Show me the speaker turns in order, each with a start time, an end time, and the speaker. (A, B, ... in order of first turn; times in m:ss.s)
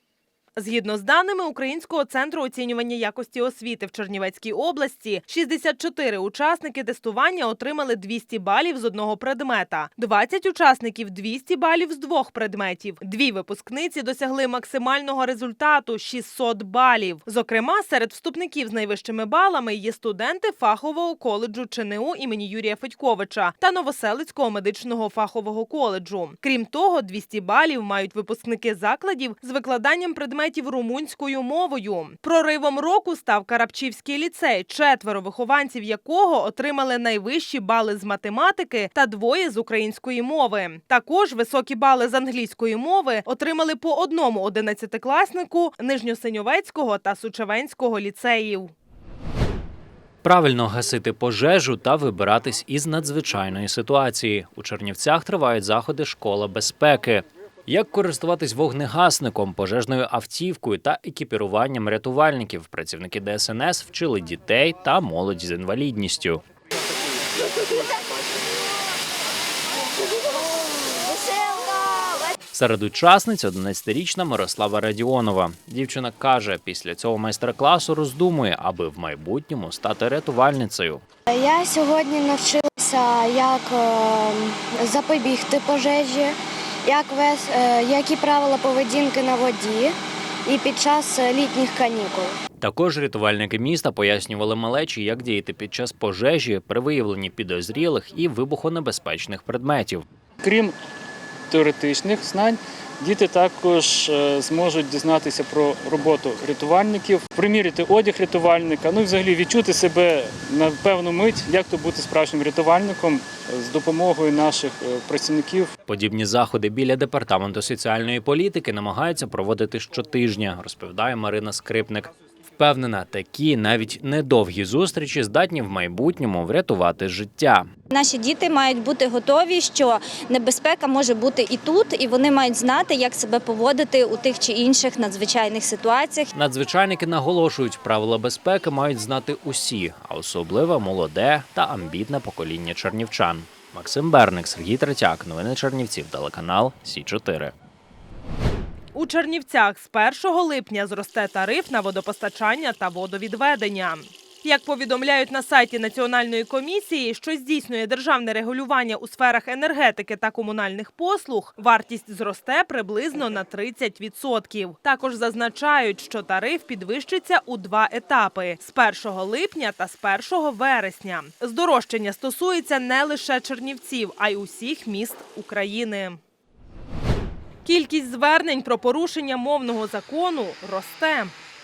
0:00.6-0:48.7 A
0:50.2-1:06.4 B
1:12.5-1:21.0 B
1:21.3-1:32.4 C
1:32.6-1:40.0 B
1:40.4-1:40.7 D
1:41.5-1:55.7 D
1:55.9-2:07.7 B
2:07.9-2:16.3 E
2:16.3-2:27.5 B
2:28.9-2:56.2 A
2:57.6-3:01.3 A